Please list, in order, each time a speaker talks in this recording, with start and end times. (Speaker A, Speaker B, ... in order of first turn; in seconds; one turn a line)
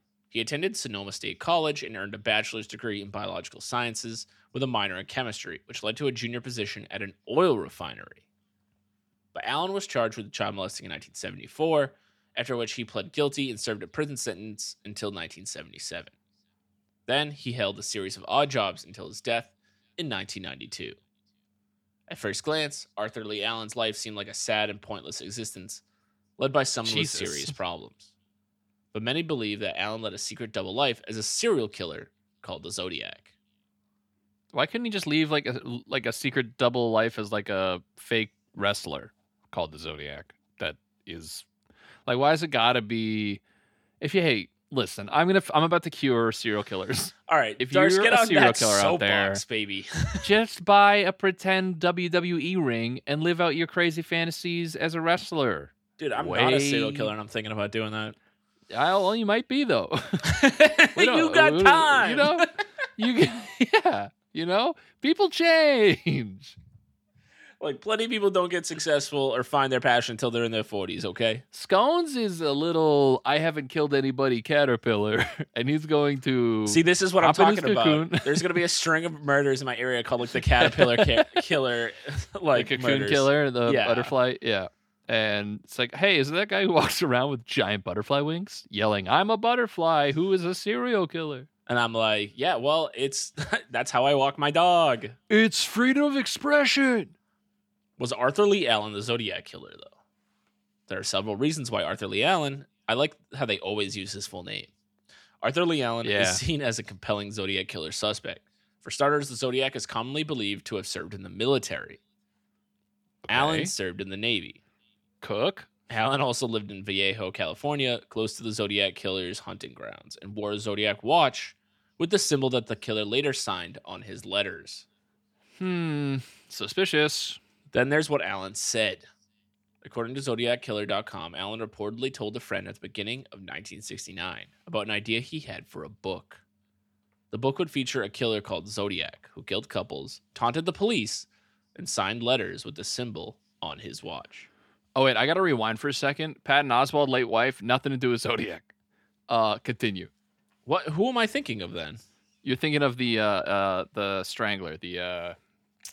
Speaker A: 0.3-8.2
Speaker A: 9.3-16.1
Speaker A: 17.1-21.0
Speaker A: 22.1-25.8
Speaker A: 26.4-28.1
Speaker B: 26.8-27.6
Speaker A: 28.9-33.3
Speaker B: 34.5-41.5
Speaker B: 42.0-43.4
Speaker B: 44.0-49.4
Speaker A: 47.3-50.3
Speaker B: 50.2-57.1
Speaker A: 56.0-58.1
Speaker B: 58.7-66.6
Speaker A: 60.2-62.5
Speaker A: 67.6-71.4
Speaker B: 71.5-78.5
Speaker A: 76.7-84.1
Speaker B: 80.6-81.4
Speaker B: 82.5-91.5
Speaker A: 91.7-95.2
Speaker B: 95.3-97.1
Speaker A: 98.0-99.9
Speaker A: 100.9-104.7
Speaker A: 105.4-112.0
Speaker B: 106.0-106.4
Speaker B: 113.2-113.7
Speaker A: 113.3-114.6
Speaker B: 115.2-115.7
Speaker A: 115.9-124.8
Speaker B: 125.6-127.4
Speaker A: 127.7-129.1
Speaker A: 129.8-136.4
Speaker A: 137.3-144.5
Speaker B: 144.9-148.7
Speaker B: 149.3-150.1
Speaker A: 150.7-152.0
Speaker B: 152.4-155.3